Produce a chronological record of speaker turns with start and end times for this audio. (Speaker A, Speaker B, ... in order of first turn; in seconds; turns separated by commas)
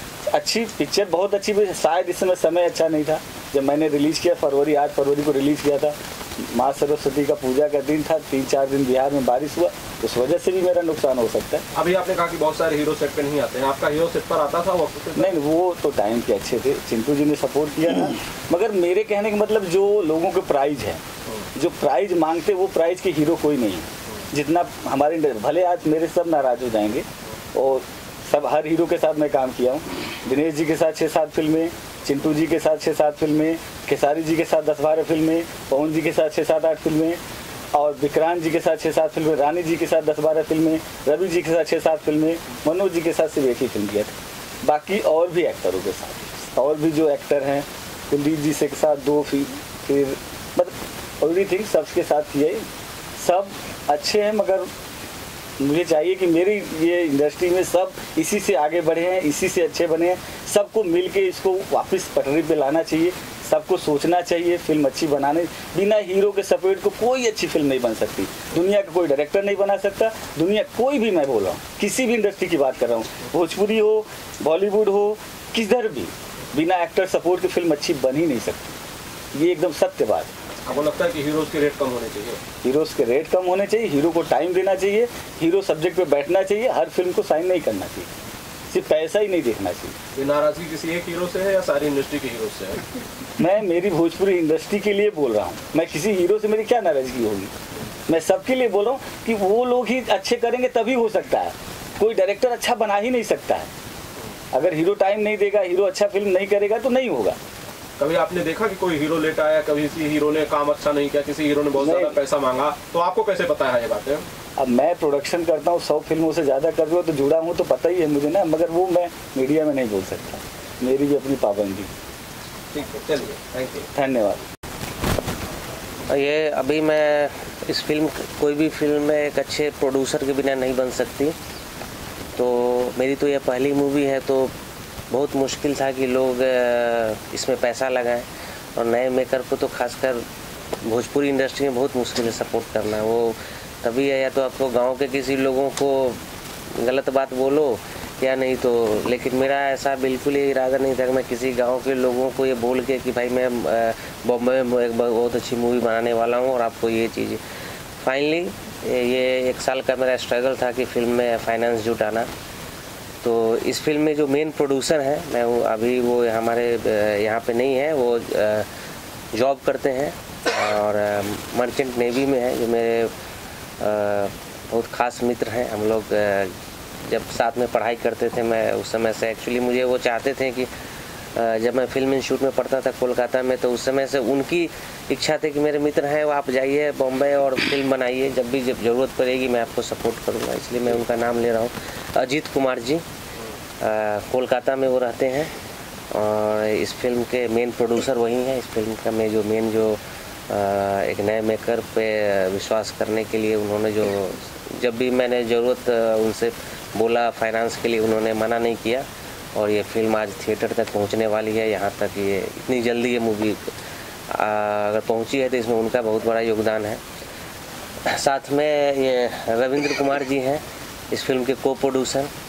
Speaker A: 0.3-11.6, Speaker B: 11.7-15.4, Speaker A: 15.1-21.0, Speaker A: 21.5-37.2, Speaker A: 37.7-52.6, Speaker A: 53.2-54.7, Speaker A: 55.6-78.7, Speaker A: 79.3-80.3, Speaker B: 80.7-82.4, Speaker A: 82.6-88.1, Speaker A: 88.7-89.9, Speaker B: 90.1-92.8, Speaker A: 93.4-97.5, Speaker A: 98.1-103.7, Speaker A: 104.5-107.4, Speaker B: 108.0-114.2, Speaker A: 111.7-112.2, Speaker A: 114.6-121.9, Speaker B: 122.7-123.9, Speaker A: 123.9-124.4, Speaker C: 126.1-131.3, Speaker C: 132.3-134.5, Speaker C: 135.1-140.2, Speaker C: 140.8-146.2, Speaker C: 146.7-157.4, Speaker C: 158.0-162.3, Speaker C: 163.2-168.7, Speaker C: 169.3-173.1, Speaker C: 173.8-180.7, Speaker C: 181.3-193.0, Speaker C: 193.8-195.5, Speaker C: 196.1-213.7, Speaker C: 214.3-217.0, Speaker C: 218.0-222.3